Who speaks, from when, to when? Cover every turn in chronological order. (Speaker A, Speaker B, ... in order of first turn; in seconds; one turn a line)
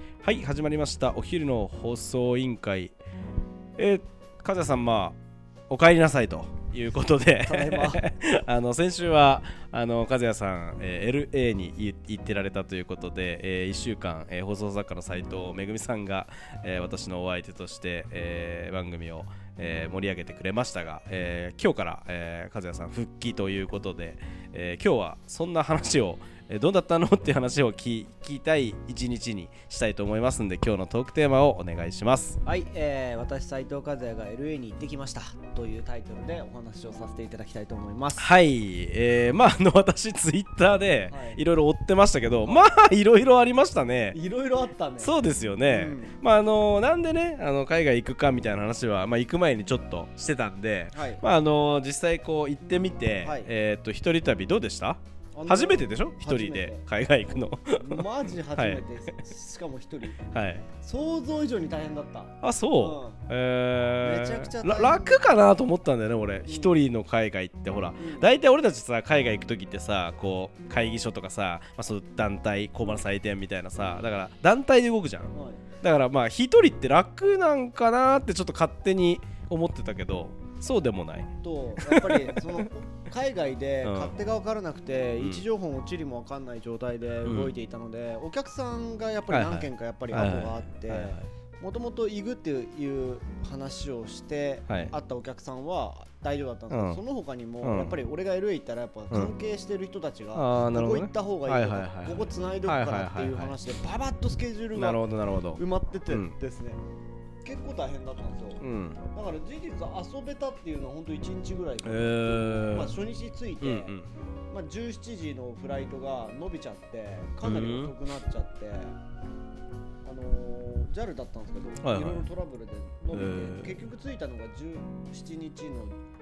Speaker A: 0.2-2.9
Speaker A: 3.8-5.2
Speaker A: 5.7-32.4
Speaker B: 7.4-8.0
Speaker B: 32.4-38.3
Speaker A: 38.2-44.2
Speaker B: 41.1-41.4
Speaker B: 42.4-42.7
Speaker B: 44.1-45.1
Speaker A: 45.0-59.1
Speaker B: 45.7-46.2
Speaker B: 50.9-51.2
Speaker B: 53.2-53.5
Speaker B: 55.3-60.2
Speaker A: 60.2-60.7
Speaker B: 60.8-63.2
Speaker A: 62.4-82.6
Speaker B: 64.0-65.1
Speaker B: 66.4-66.8
Speaker B: 68.0-68.3
Speaker B: 75.3-75.7
Speaker B: 81.4-105.0
Speaker A: 83.8-84.1
Speaker A: 85.2-85.4
Speaker A: 87.2-87.5
Speaker A: 89.3-91.2
Speaker A: 96.7-97.0
Speaker A: 97.6-98.0
Speaker A: 100.3-103.5
Speaker A: 104.7-106.3
Speaker B: 105.5-106.8
Speaker B: 107.4-114.0
Speaker A: 108.6-109.0
Speaker A: 111.8-113.0
Speaker A: 113.6-114.1
Speaker B: 114.5-118.9
Speaker A: 117.4-117.9
Speaker B: 120.0-125.9
Speaker A: 121.8-122.2
Speaker A: 123.1-123.8